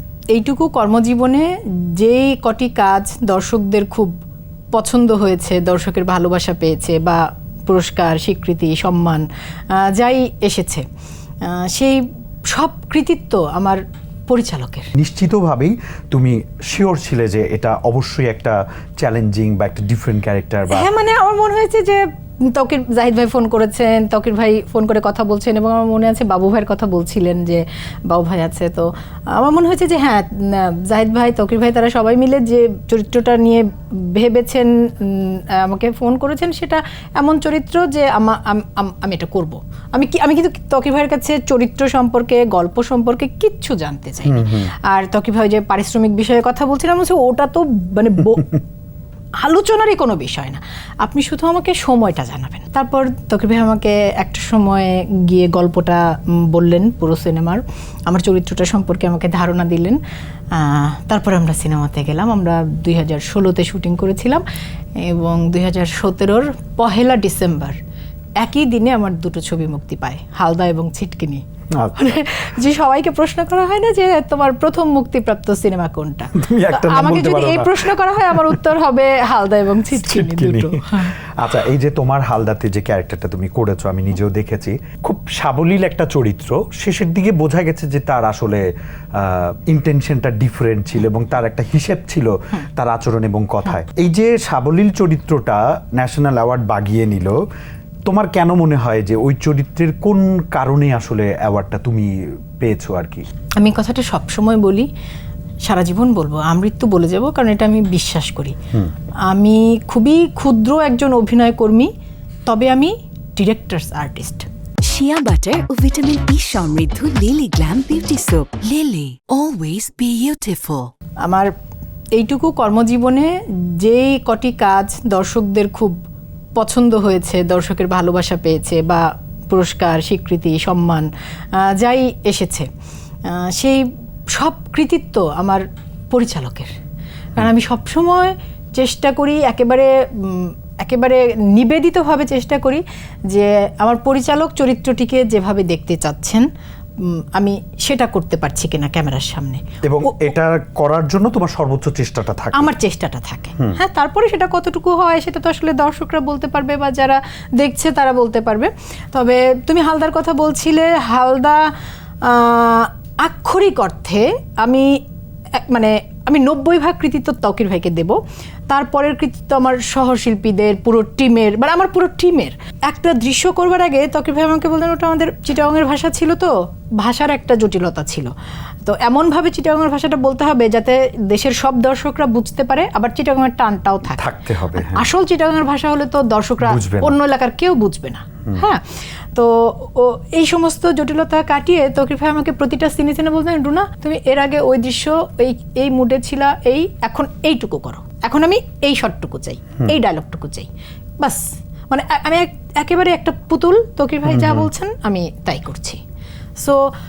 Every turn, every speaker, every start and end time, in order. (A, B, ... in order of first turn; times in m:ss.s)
0:00.3-0:04.2 A
0:04.7-0:10.8 A
0:11.4-0:14.9 A
0:14.9-0:20.9 B
0:20.7-0:48.6 A
0:44.2-0:44.7 B
0:49.4-1:00.0 A
1:00.5-1:04.4 A
1:05.0-1:07.8 A
1:08.4-1:21.1 A
1:11.7-1:12.1 B
1:16.3-1:18.6 B
1:19.9-1:37.4 B
1:38.0-1:43.2 B
1:43.6-1:44.9 A
1:45.6-1:48.6 A
1:49.2-1:51.9 A
1:52.4-1:54.4 A
1:54.8-2:00.9 C
2:01.2-2:01.5 A
2:02.1-2:06.0 A
2:06.6-2:12.7 A
2:13.2-2:16.8 A
2:17.3-2:26.5 A
2:27.0-2:30.3 A
2:29.8-2:32.7 B
2:32.5-2:41.7 A
2:42.2-2:45.0 A
2:45.5-2:58.3 A
2:58.8-3:26.0 A
3:04.1-3:05.1 B
3:06.6-3:07.2 B
3:24.3-3:24.7 B
3:26.6-3:26.8 A